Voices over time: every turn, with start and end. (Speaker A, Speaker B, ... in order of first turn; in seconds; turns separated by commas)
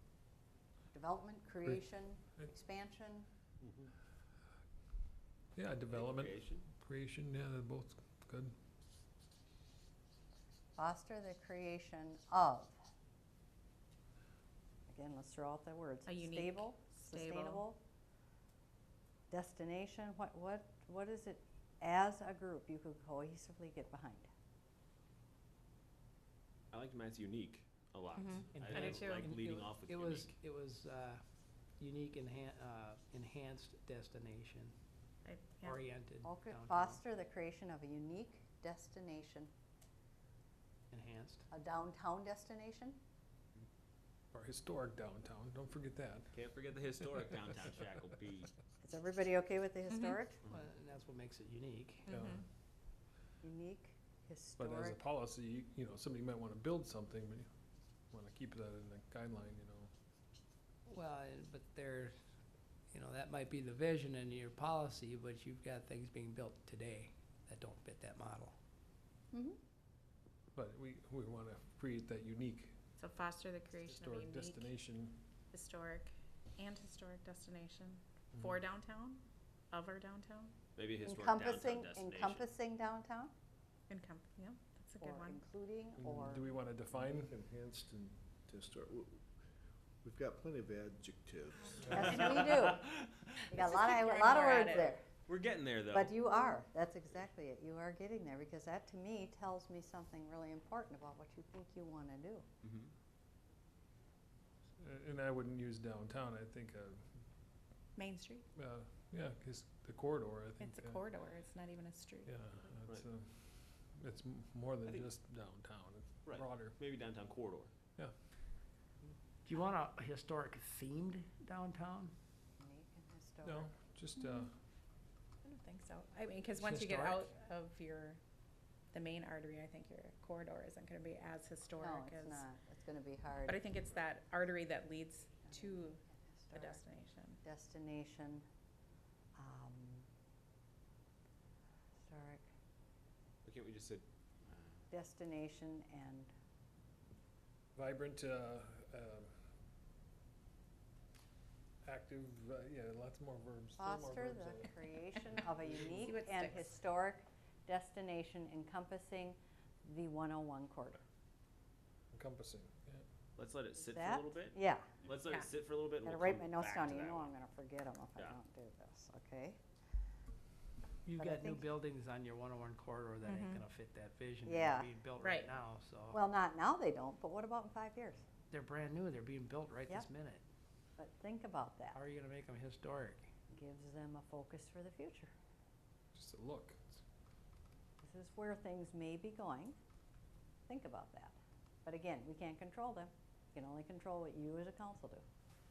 Speaker A: 0.9-3.3, Speaker B: 5.5-8.5, Speaker C: 5.9-6.7, Speaker A: 10.8-12.8, Speaker A: 14.9-17.8, Speaker D: 16.1-17.6, Speaker A: 19.3-24.3, Speaker C: 26.7-30.3, Speaker D: 28.1-29.2, Speaker E: 28.5-34.7, Speaker D: 35.2-35.8, Speaker E: 35.6-37.0, Speaker A: 36.2-39.5, Speaker E: 40.9-41.5, Speaker A: 41.5-43.0, Speaker B: 44.3-46.3, Speaker C: 46.3-48.5, Speaker A: 48.8-50.4, Speaker E: 50.5-52.1, Speaker D: 52.1-52.4, Speaker B: 52.1-52.4, Speaker A: 53.4-55.0, Speaker B: 54.6-57.5, Speaker B: 58.1-59.9, Speaker E: 60.9-62.1, Speaker E: 62.9-68.5, Speaker A: 69.3-69.6, Speaker B: 70.5-72.8, Speaker D: 73.0-74.7, Speaker B: 73.8-75.2, Speaker D: 75.5-80.5, Speaker C: 80.8-82.4, Speaker A: 81.0-83.3, Speaker D: 83.9-85.4, Speaker A: 85.0-86.5, Speaker B: 86.0-87.3, Speaker F: 86.9-89.2, Speaker F: 90.0-92.1, Speaker A: 91.9-92.9, Speaker C: 92.5-93.1, Speaker A: 93.5-95.0, Speaker D: 93.5-95.0, Speaker C: 95.3-96.1, Speaker A: 95.9-102.5, Speaker C: 102.6-102.9, Speaker B: 104.8-107.0, Speaker D: 108.0-108.4, Speaker B: 108.6-111.0, Speaker D: 110.6-112.5, Speaker B: 112.2-116.8, Speaker C: 116.2-117.7, Speaker E: 119.4-122.1, Speaker A: 122.6-123.7, Speaker B: 123.4-124.5, Speaker D: 125.4-128.2, Speaker E: 126.6-127.2, Speaker D: 128.9-132.4, Speaker A: 131.8-133.6, Speaker D: 133.4-137.4, Speaker A: 135.4-136.8, Speaker A: 137.4-138.4, Speaker A: 139.4-140.1, Speaker A: 142.0-142.4, Speaker C: 143.4-144.8, Speaker A: 144.9-146.3, Speaker B: 147.8-149.3, Speaker B: 151.8-154.7, Speaker A: 153.8-161.0, Speaker D: 156.0-156.6, Speaker B: 162.1-163.0, Speaker C: 163.4-167.3, Speaker A: 163.8-164.9, Speaker A: 166.0-169.6, Speaker E: 171.0-176.2, Speaker A: 171.2-171.7, Speaker D: 173.2-173.6, Speaker A: 174.4-174.9, Speaker D: 175.2-175.5, Speaker A: 176.1-178.2, Speaker E: 178.5-180.4, Speaker A: 181.0-182.0, Speaker E: 181.9-183.3, Speaker A: 183.5-185.3, Speaker B: 186.1-187.0, Speaker A: 188.0-189.8, Speaker A: 190.7-195.2